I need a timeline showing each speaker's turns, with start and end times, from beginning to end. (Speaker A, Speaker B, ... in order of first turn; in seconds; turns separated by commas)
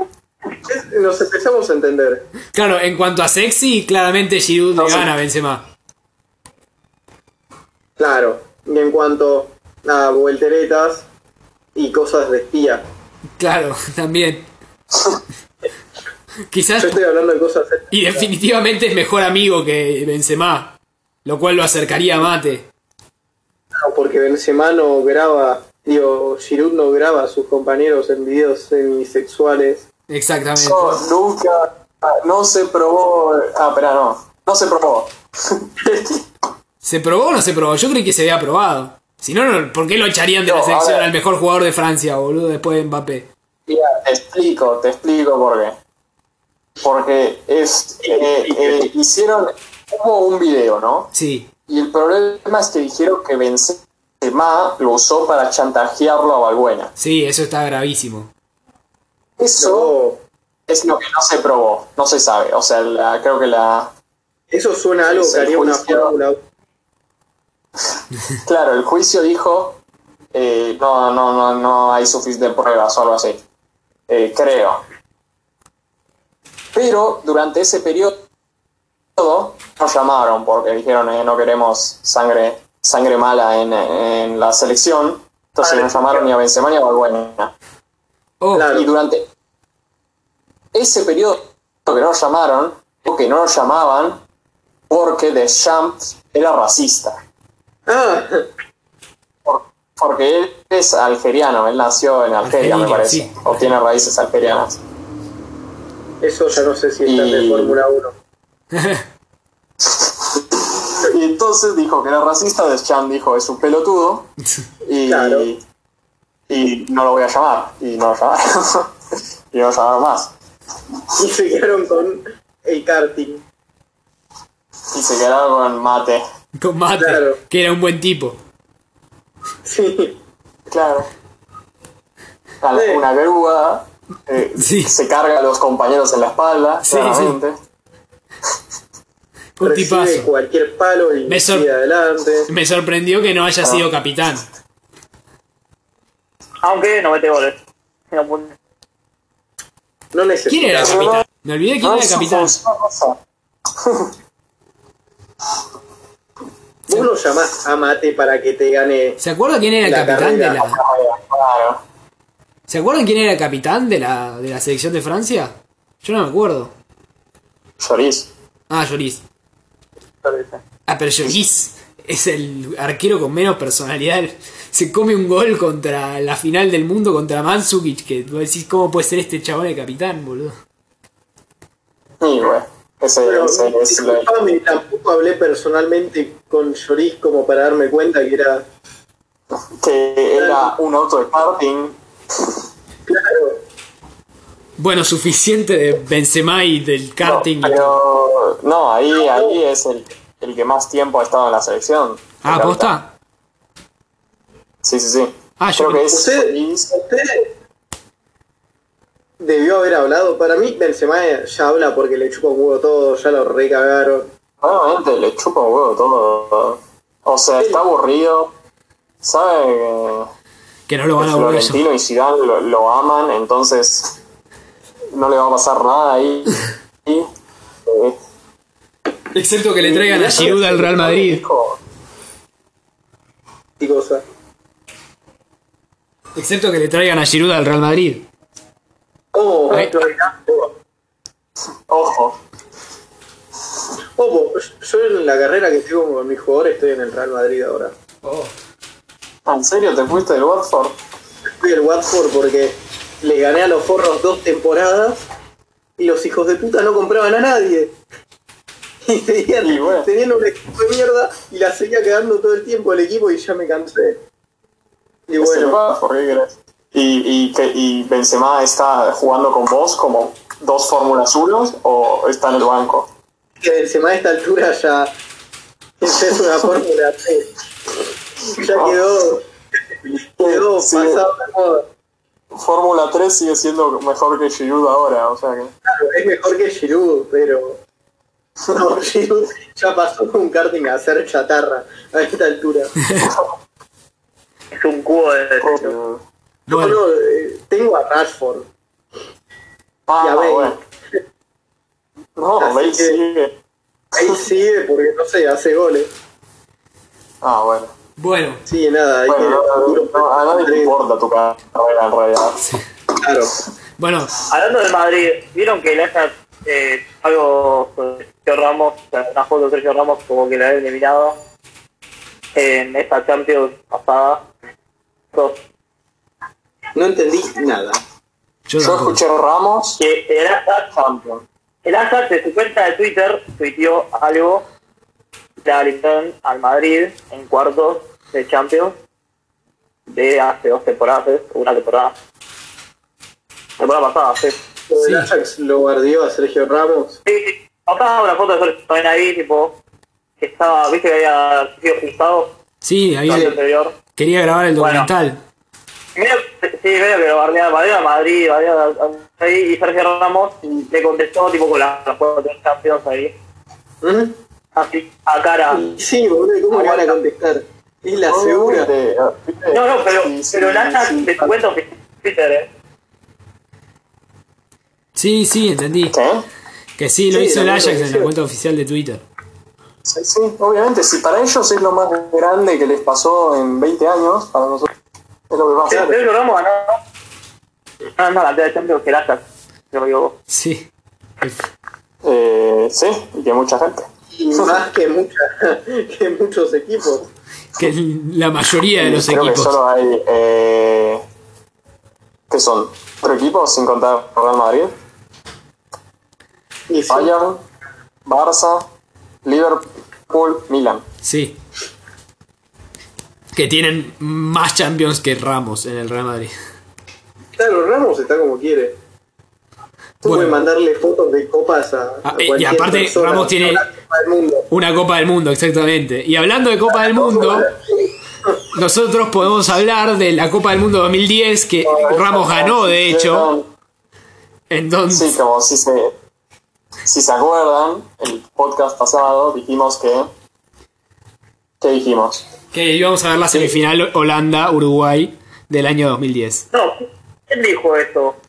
Speaker A: 0.7-2.3, Speaker B: 2.5-5.6, Speaker C: 4.8-5.1, Speaker A: 8.0-11.1, Speaker A: 11.8-12.8, Speaker B: 13.4-14.5, Speaker B: 16.5-17.0, Speaker A: 16.8-18.3, Speaker B: 17.9-22.7, Speaker A: 23.8-29.9, Speaker B: 30.1-31.0, Speaker C: 30.6-36.0, Speaker B: 36.8-43.3, Speaker C: 40.4-41.1, Speaker C: 43.7-45.8, Speaker C: 46.8-51.1, Speaker B: 51.1-51.5, Speaker C: 51.7-56.9, Speaker B: 57.0-58.3, Speaker C: 59.4-59.9, Speaker A: 59.6-60.2, Speaker C: 60.7-63.9, Speaker A: 64.5-66.4, Speaker C: 65.0-66.1, Speaker C: 68.4-69.8, Speaker C: 70.3-73.4, Speaker C: 74.1-74.8, Speaker C: 76.7-78.2, Speaker C: 79.2-87.5, Speaker D: 85.6-86.3, Speaker B: 88.4-88.7, Speaker A: 88.5-88.9, Speaker C: 88.7-89.3, Speaker C: 90.7-94.2, Speaker C: 94.9-97.2, Speaker A: 97.9-98.5, Speaker C: 99.4-104.8, Speaker B: 102.4-103.8, Speaker A: 106.2-108.1, Speaker C: 107.0-107.8, Speaker B: 108.7-109.0, Speaker C: 109.8-114.3, Speaker C: 114.8-115.6, Speaker A: 115.0-115.5, Speaker C: 116.5-118.9, Speaker C: 119.5-120.3, Speaker A: 121.1-123.4, Speaker C: 124.9-126.2, Speaker B: 126.6-128.4, Speaker A: 127.0-127.4, Speaker A: 129.6-130.2, Speaker C: 130.7-131.1, Speaker C: 132.6-137.6, Speaker A: 132.7-133.0, Speaker B: 134.6-134.9, Speaker B: 136.8-137.4, Speaker B: 139.6-140.3, Speaker A: 139.6-142.5, Speaker B: 141.3-141.7, Speaker B: 142.5-144.5, Speaker D: 146.6-147.6, Speaker D: 148.1-148.6, Speaker A: 150.1-151.0, Speaker B: 150.5-152.6, Speaker C: 150.8-151.2, Speaker C: 151.8-153.2, Speaker C: 153.8-154.1, Speaker A: 156.9-159.2, Speaker B: 159.2-160.8, Speaker A: 159.8-160.6, Speaker C: 160.6-161.8, Speaker B: 162.7-166.7, Speaker C: 167.8-168.3, Speaker B: 168.7-169.2, Speaker D: 170.2-170.6, Speaker B: 170.9-180.6, Speaker C: 182.2-184.3, Speaker A: 183.2-188.7, Speaker C: 189.7-192.5, Speaker A: 190.4-190.7, Speaker A: 193.1-193.6, Speaker B: 194.8-198.0, Speaker C: 197.2-202.9, Speaker A: 199.2-199.6, Speaker B: 202.4-203.1, Speaker C: 204.8-206.9, Speaker B: 205.6-206.1, Speaker A: 206.1-207.5, Speaker A: 209.4-214.3, Speaker C: 214.6-218.5, Speaker C: 219.2-220.3, Speaker B: 220.9-221.8, Speaker C: 221.2-224.2, Speaker C: 225.1-227.3, Speaker C: 227.8-228.2, Speaker B: 229.3-231.4, Speaker C: 229.8-231.8, Speaker A: 230.1-230.7, Speaker A: 233.8-234.2, Speaker B: 236.3-238.3, Speaker A: 239.3-240.7, Speaker D: 239.7-240.3, Speaker C: 241.9-242.4, Speaker A: 244.2-247.9, Speaker B: 248.2-248.5, Speaker C: 249.4-251.0, Speaker A: 251.6-255.2, Speaker A: 256.0-257.9, Speaker A: 259.1-264.2, Speaker C: 259.6-260.1, Speaker A: 265.3-265.8, Speaker C: 265.4-273.1, Speaker A: 273.6-275.1, Speaker A: 276.0-277.6, Speaker A: 278.5-279.4, Speaker C: 278.6-279.0, Speaker C: 280.1-281.2, Speaker A: 280.4-281.9, Speaker C: 282.5-285.7, Speaker A: 285.9-287.8, Speaker A: 288.7-292.9, Speaker C: 293.2-293.5, Speaker D: 294.7-295.9, Speaker C: 295.6-296.2, Speaker B: 296.7-297.0, Speaker A: 296.7-298.7, Speaker C: 300.1-300.8, Speaker A: 300.2-300.8, Speaker C: 302.4-303.5, Speaker A: 302.6-303.2, Speaker A: 304.1-306.1, Speaker C: 307.4-307.9, Speaker B: 308.2-308.6, Speaker A: 308.6-310.9, Speaker C: 309.3-312.6, Speaker A: 313.2-313.6, Speaker B: 314.0-314.3, Speaker D: 314.5-321.4, Speaker D: 322.6-324.4, Speaker D: 325.3-325.6, Speaker A: 326.9-328.0, Speaker B: 328.7-329.2, Speaker C: 328.8-330.0, Speaker D: 330.0-330.9, Speaker C: 330.9-331.4, Speaker D: 331.9-334.6, Speaker D: 335.6-338.9, Speaker D: 340.1-342.1, Speaker D: 343.8-344.6, Speaker A: 344.9-347.2, Speaker B: 344.9-345.3, Speaker D: 347.2-349.8, Speaker D: 350.4-352.5, Speaker B: 352.8-353.6, Speaker D: 353.3-353.9, Speaker B: 354.1-355.4, Speaker D: 354.8-355.1, Speaker D: 356.1-363.3, Speaker A: 364.0-364.4, Speaker D: 364.8-365.9, Speaker A: 365.7-368.9, Speaker D: 366.7-367.2, Speaker C: 368.2-371.5, Speaker D: 369.7-372.7, Speaker B: 375.1-376.1, Speaker C: 376.1-376.4, Speaker B: 377.0-379.2, Speaker A: 377.3-378.3, Speaker C: 380.1-384.9, Speaker C: 385.5-386.1, Speaker D: 385.9-387.0, Speaker A: 385.9-386.2, Speaker D: 388.2-390.4, Speaker B: 390.5-390.9, Speaker C: 392.2-394.7, Speaker A: 394.3-397.3, Speaker B: 397.8-399.8, Speaker C: 399.0-401.2, Speaker C: 402.5-404.9, Speaker A: 406.9-407.3, Speaker C: 407.1-407.6, Speaker C: 408.2-408.9, Speaker C: 409.4-411.1, Speaker B: 411.2-411.6, Speaker B: 413.5-416.5, Speaker A: 417.6-419.0, Speaker A: 420.2-424.7, Speaker B: 420.2-420.5, Speaker B: 422.2-423.9, Speaker B: 424.7-427.7, Speaker A: 427.0-428.6, Speaker B: 428.7-433.5, Speaker C: 431.8-433.7, Speaker B: 434.7-435.4, Speaker C: 435.1-436.1, Speaker C: 437.1-440.3, Speaker C: 441.8-442.5, Speaker B: 442.7-446.6, Speaker D: 446.7-448.4